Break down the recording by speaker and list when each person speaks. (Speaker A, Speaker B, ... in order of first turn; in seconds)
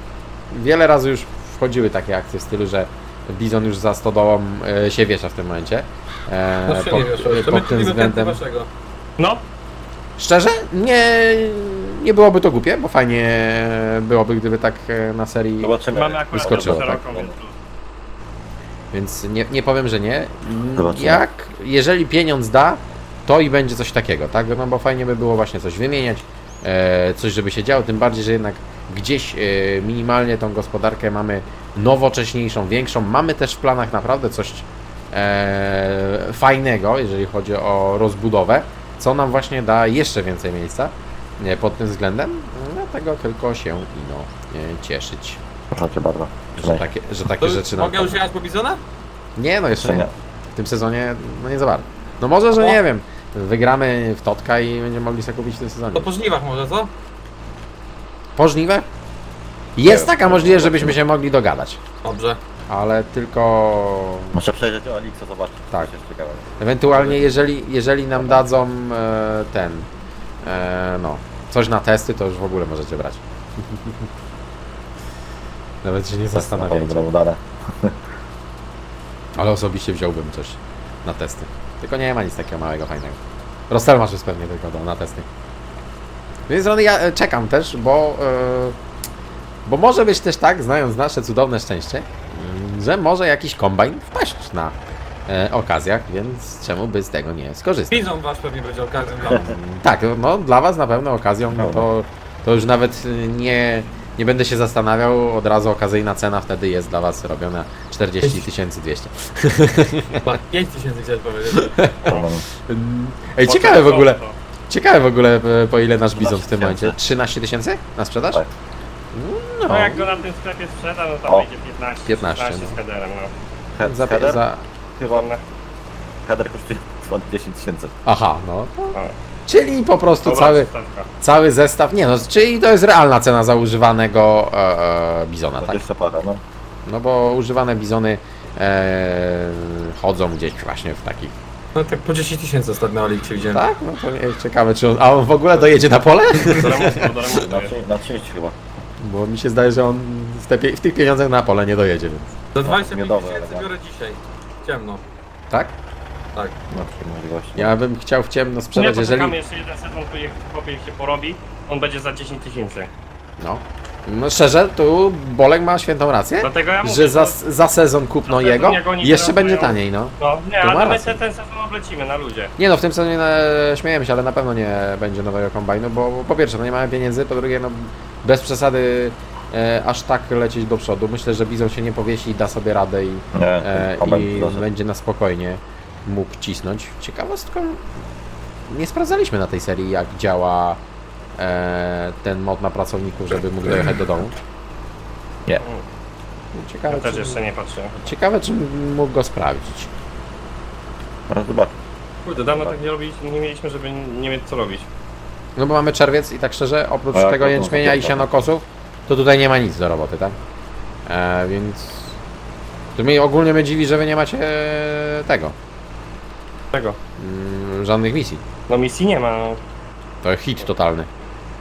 Speaker A: 0.5-8.4, 10.2-15.8, 16.3-16.9, 18.9-45.4, 46.6-48.2, 49.4-56.1, 58.4-58.9, 59.8-61.8, 62.7-64.4, 66.6-69.9, 70.4-74.0, 75.8-77.1, 79.4-83.2, 83.7-85.3, 86.5-88.8, 89.7-94.8, 95.3-98.0, 99.3-110.3, 111.5-118.4, 119.1-120.1, 122.1-122.8, 123.8-124.6, 128.1-129.0, 129.5-130.7, 131.2-135.8, 136.9-141.3, 143.4-147.4, 149.0-152.3, 157.6-159.3, 163.4-171.2, 172.6-187.9, 188.7-190.8, 191.4-194.3, 196.5-197.4, 198.0-199.9, 205.6-210.4, 211.1-212.2, 212.9-215.6, 217.2-218.4, 220.2-221.1
Speaker B: 6.7-8.7, 47.4-48.8, 55.9-56.9, 62.0-62.4, 97.9-99.5, 110.2-111.8, 141.7-143.7, 152.5-155.0
Speaker C: 15.6-17.3, 20.8-21.3, 45.7-46.9, 49.8-50.1, 59.8-61.0, 64.3-67.2, 68.2-68.5, 76.3-78.0, 101.6-101.9, 112.1-112.5, 116.2-117.0, 123.7-124.4, 125.0-125.3, 126.2-128.0, 135.6-136.4, 147.3-148.6, 152.6-153.7, 156.7-157.7, 183.3-184.6, 201.3-201.7, 207.1-208.3
Speaker D: 15.9-17.6, 113.5-114.3, 119.7-123.3, 125.0-125.4, 130.2-131.1, 146.4-147.7, 158.8-162.9, 166.4-167.3, 168.2-172.5, 196.9-198.0, 202.3-204.9, 216.7-217.0, 218.7-219.6